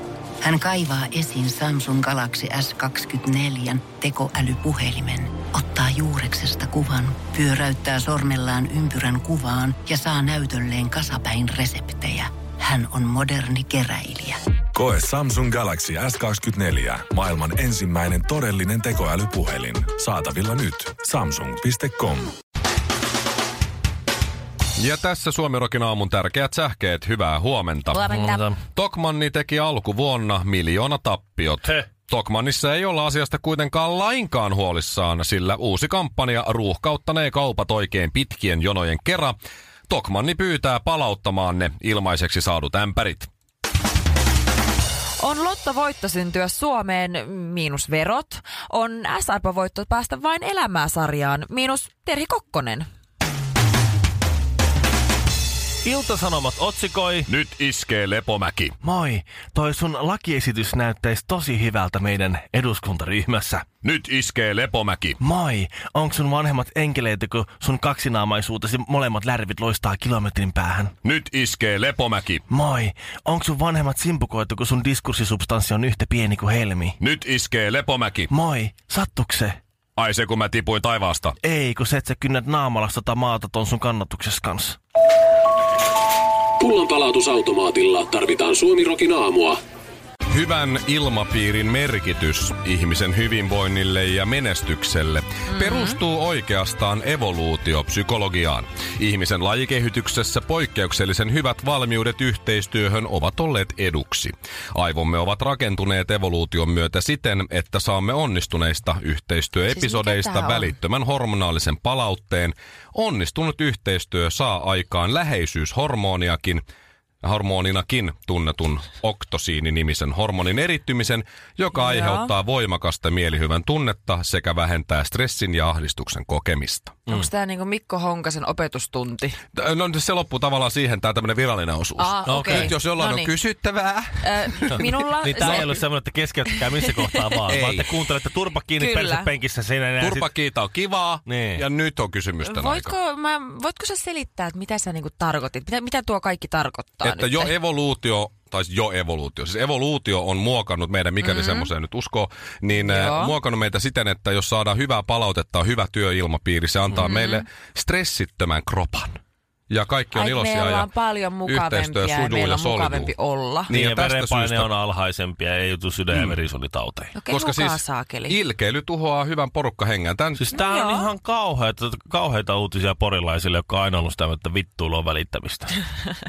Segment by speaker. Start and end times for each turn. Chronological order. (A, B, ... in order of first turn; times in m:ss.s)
0:00.4-0:14.4 A
0:14.7-0:22.3 B
0:24.8-0:28.1 C
0:27.9-0:28.4 D
0:28.1-0:28.6 E
0:28.7-0:39.4 C
0:39.9-0:43.3 C
0:45.2-0:52.8 D
0:55.8-0:57.3 E
0:57.3-0:58.8 C
0:58.8-1:03.7 E
1:03.8-1:05.2 C
1:05.2-1:11.0 E
1:11.0-1:12.4 C
1:12.5-1:17.0 E
1:17.0-1:18.3 C
1:18.3-1:19.6 E
1:20.0-1:21.4 C
1:21.4-1:24.8 E
1:26.6-1:29.6 F
1:30.3-1:56.6 C
1:35.5-1:36.0 D
1:49.7-1:50.8 D
1:57.2-2:07.0 C
2:01.7-2:02.3 D
2:07.1-2:09.4 D
2:09.5-2:15.7 C
2:12.0-2:13.3 D
2:12.3-2:12.7 E
2:14.2-2:15.8 D
2:14.7-2:20.3 E
2:17.5-2:17.9 C
2:18.8-2:19.3 D
2:20.0-2:23.0 C
2:21.2-2:21.6 E
2:22.4-2:27.5 D
2:27.0-2:39.2 C
2:31.2-2:31.7 D
2:32.7-2:33.4 D
2:37.0-2:37.4 D
2:39.7-2:40.9 C
2:40.1-2:43.7 D
2:41.4-2:43.1 C
2:43.7-2:44.7 C
2:43.7-2:47.1 E
2:47.1-2:48.4 D
2:47.3-2:50.4 C
2:50.4-2:55.8 E
2:50.5-2:51.1 D